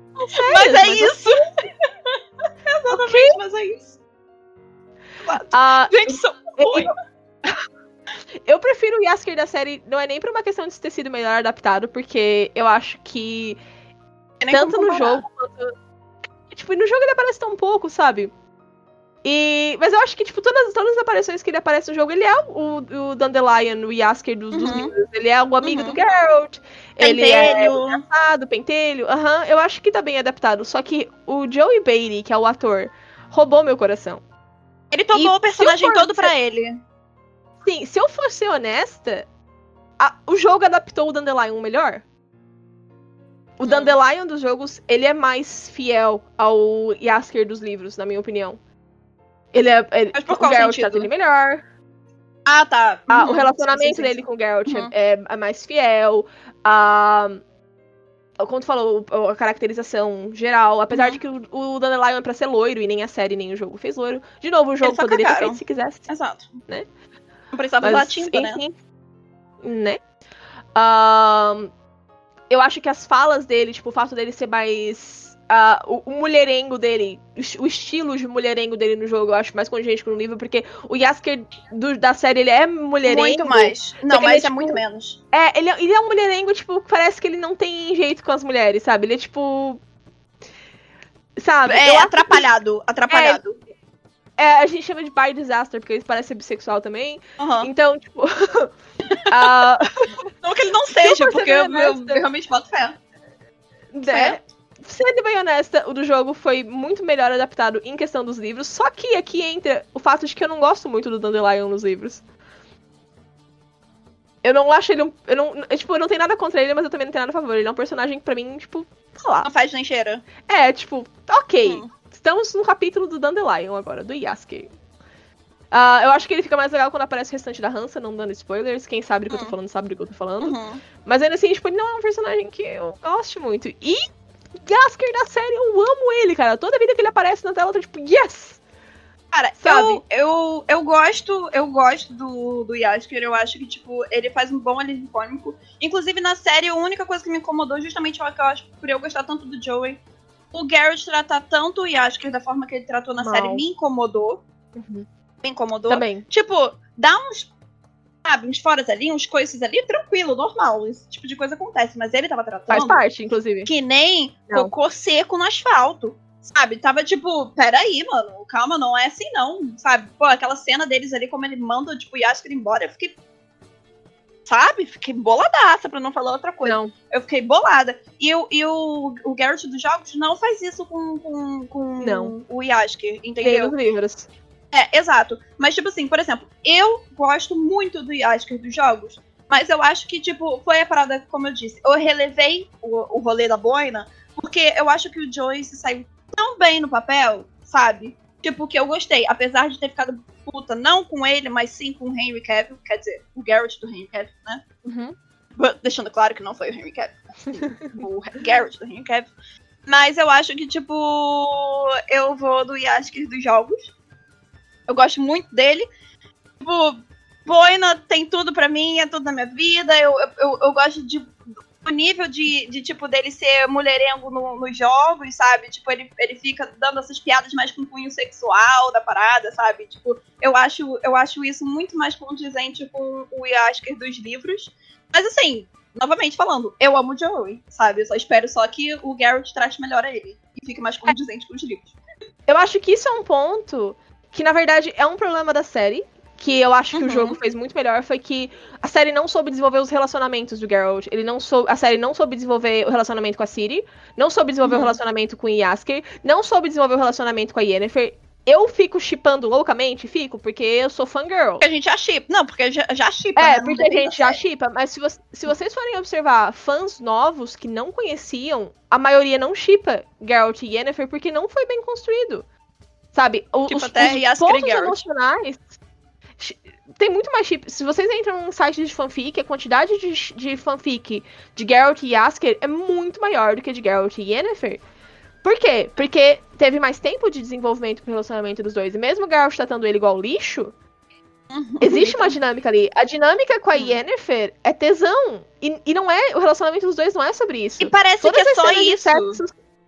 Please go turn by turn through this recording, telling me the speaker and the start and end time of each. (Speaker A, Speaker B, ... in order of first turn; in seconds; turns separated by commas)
Speaker A: 0.2-1.4, Speaker B: 0.3-4.0, Speaker A: 2.9-3.4, Speaker B: 5.2-6.9, Speaker A: 5.5-6.9, Speaker A: 8.4-13.6, Speaker B: 14.4-15.2, Speaker A: 14.5-15.7, Speaker A: 16.5-18.3, Speaker A: 19.2-34.2, Speaker B: 24.5-24.9, Speaker B: 25.6-26.0, Speaker B: 27.0-28.0, Speaker B: 34.9-36.8, Speaker A: 35.1-36.3, Speaker A: 37.6-39.3, Speaker A: 40.0-42.0, Speaker A: 43.6-48.6, Speaker B: 43.6-43.9, Speaker A: 49.5-51.6, Speaker B: 50.1-51.1, Speaker B: 52.4-54.9, Speaker A: 53.1-57.4, Speaker A: 58.4-66.1, Speaker B: 60.9-61.2, Speaker B: 64.8-66.5, Speaker B: 67.5-68.6, Speaker A: 67.8-68.8, Speaker A: 69.6-70.0, Speaker A: 70.7-71.7, Speaker A: 72.5-84.8, Speaker B: 83.0-85.2, Speaker A: 85.3-89.8, Speaker A: 91.4-92.4, Speaker B: 91.7-93.5, Speaker A: 93.1-93.4, Speaker A: 94.4-98.7, Speaker B: 97.4-97.7, Speaker B: 99.1-99.4, Speaker A: 99.3-100.2, Speaker B: 100.4-103.0, Speaker A: 101.0-102.2, Speaker A: 103.9-112.2, Speaker B: 104.1-104.4, Speaker A: 114.4-119.5, Speaker B: 119.4-120.2, Speaker A: 120.5-124.7, Speaker B: 121.6-121.9, Speaker A: 125.7-134.1, Speaker B: 129.3-129.6, Speaker B: 130.4-130.8, Speaker A: 134.6-138.6, Speaker B: 139.3-150.0, Speaker A: 139.6-140.0, Speaker B: 150.5-154.4, Speaker A: 153.2-153.6, Speaker A: 154.8-155.1, Speaker B: 155.4-157.5, Speaker A: 155.9-156.2, Speaker B: 158.2-163.0, Speaker A: 162.7-163.7, Speaker B: 163.7-173.2, Speaker B: 174.4-183.7, Speaker A: 176.6-176.9, Speaker A: 182.0-182.3, Speaker A: 183.4-184.3, Speaker B: 184.7-204.6, Speaker A: 204.8-205.1, Speaker B: 205.6-209.3, Speaker A: 207.7-208.0, Speaker B: 209.8-213.9, Speaker B: 214.9-215.9, Speaker B: 216.6-241.9, Speaker A: 242.5-261.6, Speaker B: 246.9-247.4, Speaker B: 254.6-254.9, Speaker B: 261.6-264.4, Speaker A: 263.4-272.4, Speaker A: 273.1-275.8, Speaker B: 273.6-275.0, Speaker A: 276.4-284.8, Speaker A: 285.4-290.7, Speaker B: 291.5-292.4, Speaker A: 291.8-299.5, Speaker B: 297.8-299.4